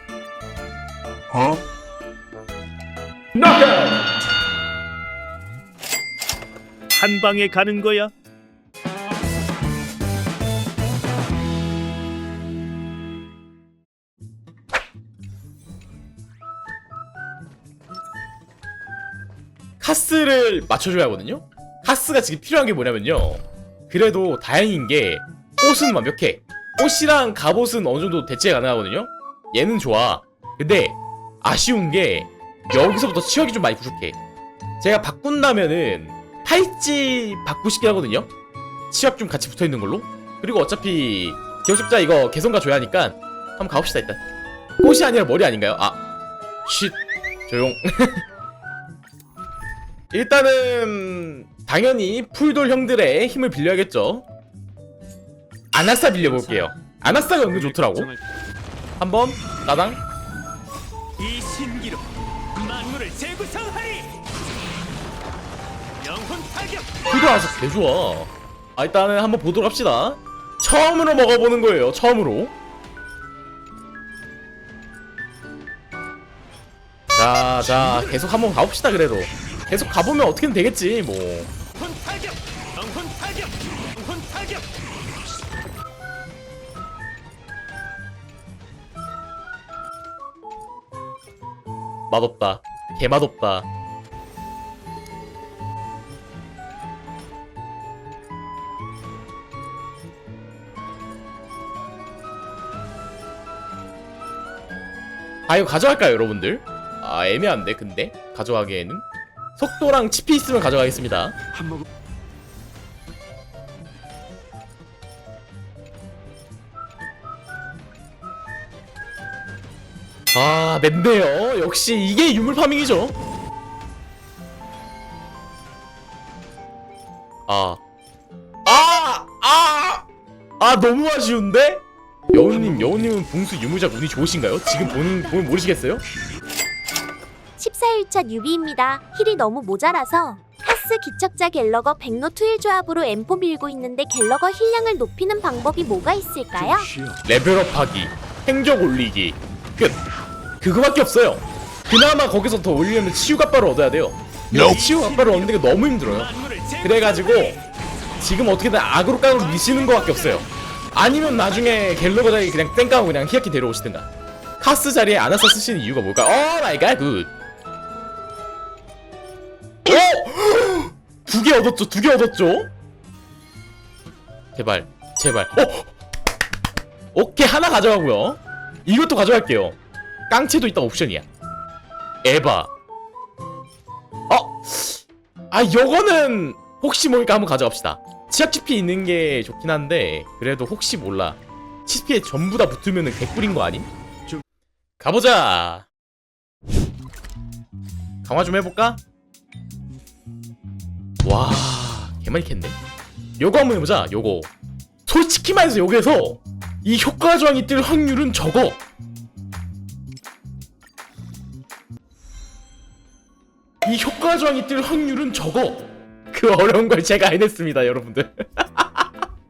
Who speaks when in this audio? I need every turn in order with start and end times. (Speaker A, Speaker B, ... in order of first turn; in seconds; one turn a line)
Speaker A: 6.9-8.1
Speaker B: 19.8-34.2
Speaker B: 34.8-38.3
Speaker B: 38.9-44.2
Speaker B: 44.8-46.0
Speaker B: 46.7-48.2
Speaker B: 50.1-54.2
Speaker B: 55.7-58.1
Speaker B: 59.0-60.0
Speaker A: 61.2-62.0
Speaker A: 62.5-64.2
Speaker A: 66.0-66.9
Speaker B: 67.1-72.5
Speaker B: 77.2-81.5
Speaker A: 81.8-84.6
Speaker B: 92.1-93.7
Speaker B: 105.5-109.0
Speaker B: 109.6-111.3
Speaker B: 120.3-123.2
Speaker B: 127.5-127.8
Speaker B: 128.7-130.1
Speaker B: 130.6-136.0
Speaker C: 137.6-146.9
Speaker B: 147.2-150.0
Speaker B: 150.6-157.6
Speaker A: 154.5-157.5
Speaker B: 158.2-164.1
Speaker A: 159.6-160.1
Speaker B: 164.6-167.3
Speaker B: 169.8-172.7
Speaker B: 174.6-175.9
Speaker B: 177.1-179.8
Speaker B: 180.3-181.3
Speaker B: 182.2-182.7
Speaker B: 184.3-193.9
Speaker B: 195.0-195.9
Speaker B: 198.2-199.0
Speaker B: 201.2-202.8
Speaker B: 203.4-204.5
Speaker B: 205.1-208.8
Speaker B: 213.8-219.1